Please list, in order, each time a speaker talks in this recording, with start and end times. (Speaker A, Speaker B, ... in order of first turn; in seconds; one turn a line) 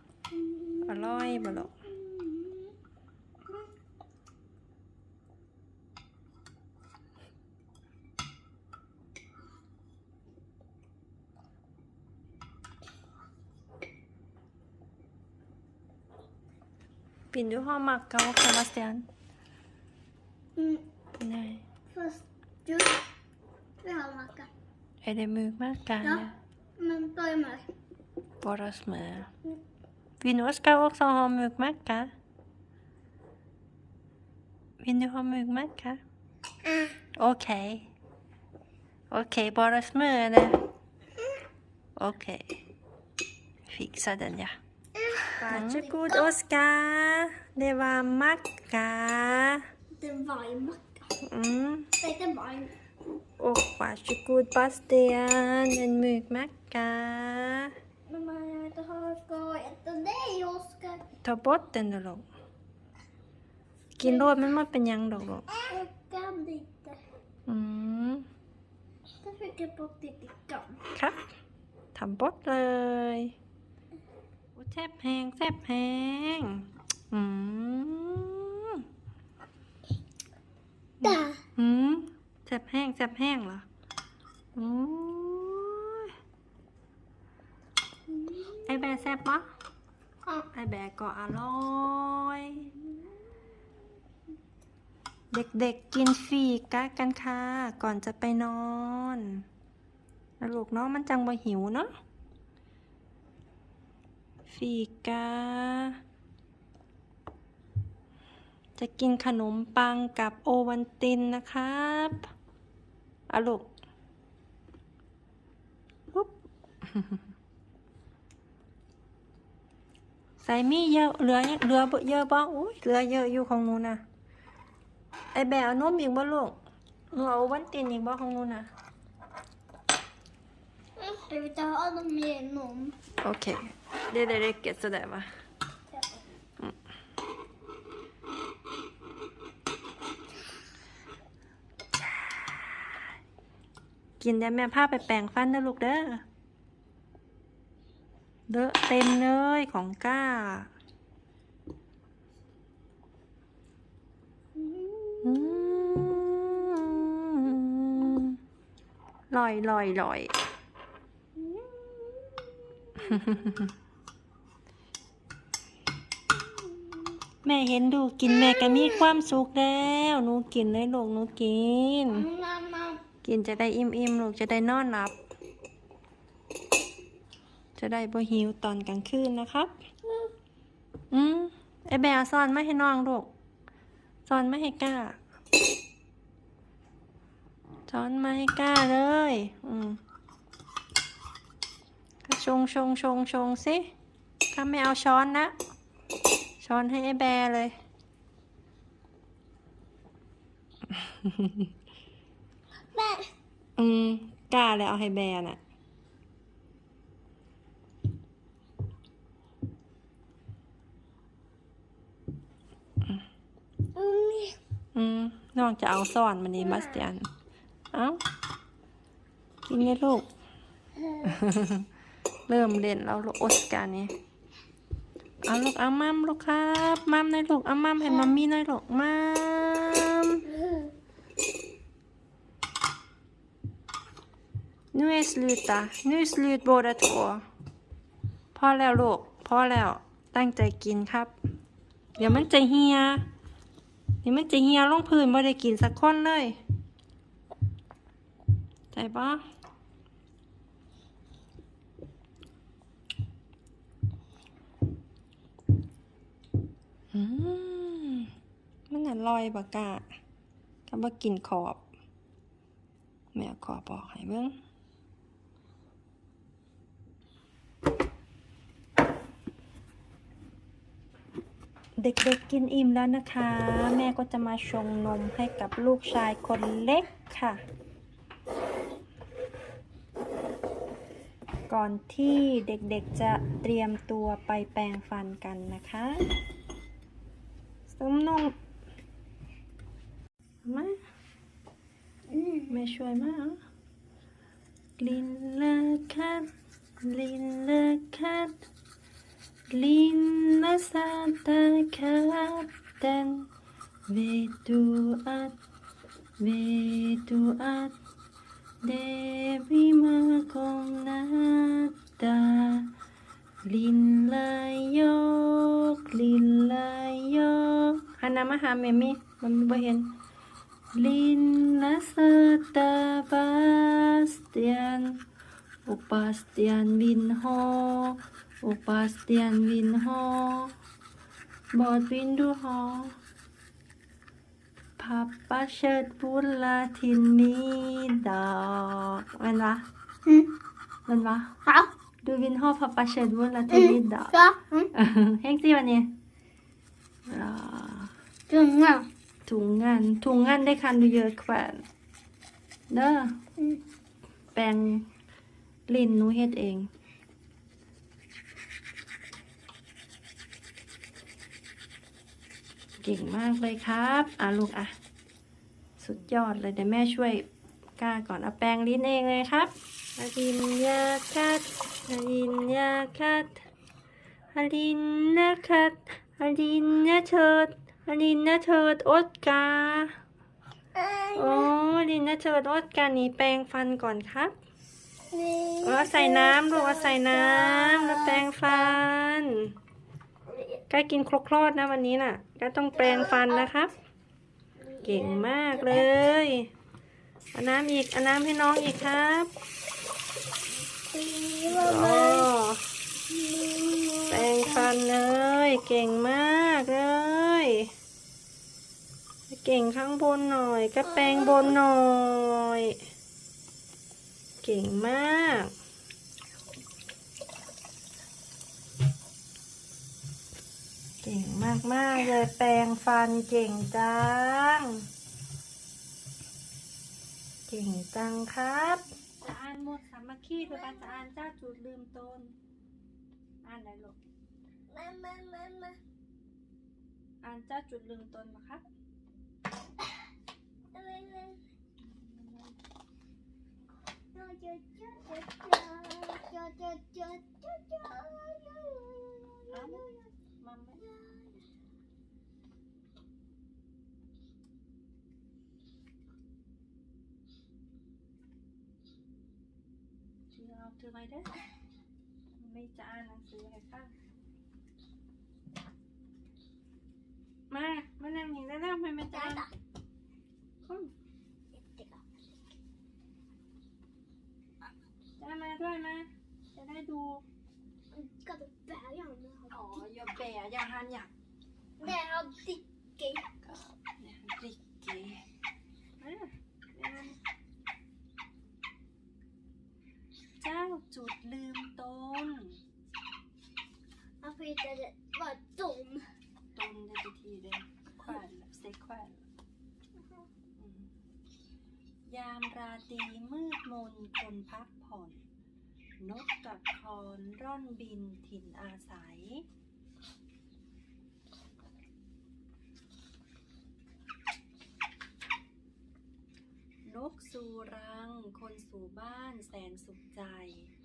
Speaker A: 0.3-2.7
Speaker B: 0.9-1.7
Speaker B: 17.3-19.1
Speaker A: 20.6-20.9
Speaker B: 21.2-21.6
Speaker A: 21.9-23.0
Speaker A: 23.8-24.5
Speaker B: 25.0-26.3
Speaker A: 26.0-27.7
Speaker B: 28.4-29.3
Speaker B: 30.2-32.1
Speaker B: 34.8-36.0
Speaker A: 36.7-36.9
Speaker B: 37.1-37.9
Speaker B: 39.1-40.6
Speaker B: 42.0-42.6
Speaker B: 43.7-44.6
Speaker A: 45.0-46.3
Speaker B: 45.4-49.6
Speaker A: 50.0-51.1
Speaker B: 51.2-51.9
Speaker A: 52.0-52.7
Speaker B: 53.4-57.7
Speaker A: 58.1-61.0
Speaker B: 61.2-62.2
Speaker B: 64.0-65.5
Speaker A: 64.0-64.4
Speaker A: 65.5-67.0
Speaker B: 67.5-68.3
Speaker A: 69.2-70.8
Speaker B: 70.9-71.3
Speaker B: 72.0-73.3
Speaker B: 74.6-78.8
Speaker B: 81.0-83.7
Speaker A: 81.0-81.4
Speaker B: 84.6-86.1
Speaker A: 88.1-89.1
Speaker B: 88.7-89.5
Speaker B: 90.5-92.7
Speaker A: 92.8-93.1
Speaker B: 95.3-99.4
Speaker B: 100.4-101.9
Speaker B: 104.5-106.0
Speaker B: 108.8-112.3
Speaker B: 113.3-113.7
Speaker B: 116.9-117.2
Speaker B: 120.4-124.0
Speaker B: 125.3-126.6
Speaker B: 127.1-128.7
Speaker A: 131.0-133.0
Speaker B: 133.2-135.3
Speaker B: 141.9-143.0
Speaker B: 144.2-146.2
Speaker B: 148.5-150.7
Speaker A: 154.6-156.9
Speaker B: 155.2-158.4
Speaker B: 159.3-160.3
Speaker A: 161.4-163.6
Speaker B: 163.1-163.7
Speaker A: 166.4-167.2
Speaker B: 167.4-172.3
Speaker A: 168.3-169.1
Speaker A: 172.1-173.0
Speaker B: 173.2-175.2
Speaker B: 177.8-179.7
Speaker B: 181.1-183.3
Speaker B: 184.3-185.2
Speaker B: 187.9-190.0
Speaker B: 192.2-193.9
Speaker B: 194.5-195.5
Speaker B: 196.6-197.8
Speaker B: 200.9-201.7
Speaker A: 202.9-203.3
Speaker B: 203.8-205.6
Speaker A: 213.9-214.6
Speaker B: 214.9-217.3
Speaker A: 216.6-217.0
Speaker B: 217.9-218.2
Speaker B: 219.7-220.3
Speaker A: 221.0-221.4
Speaker B: 221.2-221.9
Speaker B: 222.5-224.1
Speaker B: 225.4-230.5
Speaker A: 230.5-230.9
Speaker B: 234.9-237.4
Speaker B: 238.6-241.3
Speaker B: 242.2-243.3
Speaker B: 244.2-246.6
Speaker B: 248.9-249.4
Speaker B: 257.1-258.3
Speaker B: 258.9-260.1
Speaker B: 260.9-261.9
Speaker B: 263.3-264.6
Speaker B: 272.0-277.6
Speaker B: 281.7-286.2
Speaker B: 287.9-288.5
Speaker B: 290.6-291.0
Speaker A: 292.3-292.7
Speaker B: 292.7-293.6
Speaker B: 295.0-296.5
Speaker B: 297.0-298.6
Speaker B: 299.7-303.5
Speaker B: 304.1-305.6
Speaker B: 306.4-308.0
Speaker B: 308.8-312.9
Speaker B: 313.6-320.1
Speaker B: 320.9-325.2
Speaker B: 325.9-330.7
Speaker B: 331.7-333.2
Speaker B: 335.0-339.8
Speaker A: 340.3-340.5
Speaker B: 341.1-341.5
Speaker A: 341.7-341.9
Speaker B: 342.2-344.4
Speaker A: 343.7-344.9
Speaker B: 344.9-346.1
Speaker B: 347.3-348.1
Speaker A: 348.5-349.1
Speaker B: 349.5-351.8
Speaker B: 352.9-353.3
Speaker B: 354.5-355.1
Speaker B: 355.9-356.9
Speaker B: 363.0-364.9
Speaker B: 366.0-367.4
Speaker B: 368.0-373.6
Speaker B: 374.5-380.1
Speaker A: 380.9-381.7
Speaker B: 381.4-384.5
Speaker A: 385.3-389.0
Speaker B: 385.8-389.7
Speaker B: 390.9-393.9
Speaker A: 392.9-393.7
Speaker A: 394.8-396.1
Speaker B: 395.0-396.7
Speaker B: 397.5-399.5
Speaker A: 400.8-402.5
Speaker B: 401.7-402.8
Speaker A: 403.3-404.9
Speaker B: 404.3-407.9
Speaker B: 409.5-413.0
Speaker A: 411.0-411.8
Speaker B: 414.6-415.7
Speaker B: 421.2-425.1
Speaker B: 427.7-432.6
Speaker A: 430.6-431.2
Speaker B: 433.6-434.2
Speaker A: 434.9-436.0
Speaker B: 437.4-438.8
Speaker A: 440.9-441.6
Speaker B: 442.0-442.8
Speaker A: 444.3-450.1
Speaker B: 449.7-451.0
Speaker A: 451.0-451.6
Speaker B: 460.5-461.5
Speaker B: 462.6-464.1
Speaker B: 467.7-469.6
Speaker A: 469.3-469.7
Speaker B: 470.8-471.1
Speaker A: 471.7-472.2
Speaker B: 475.4-477.4
Speaker A: 478.1-480.1
Speaker B: 479.7-481.3
Speaker A: 482.0-483.5
Speaker B: 483.6-485.4
Speaker B: 486.2-487.4
Speaker B: 490.6-492.8
Speaker A: 494.4-496.2
Speaker B: 496.8-499.5
Speaker B: 500.8-501.1
Speaker B: 502.3-505.4
Speaker B: 506.2-509.6
Speaker B: 517.0-520.9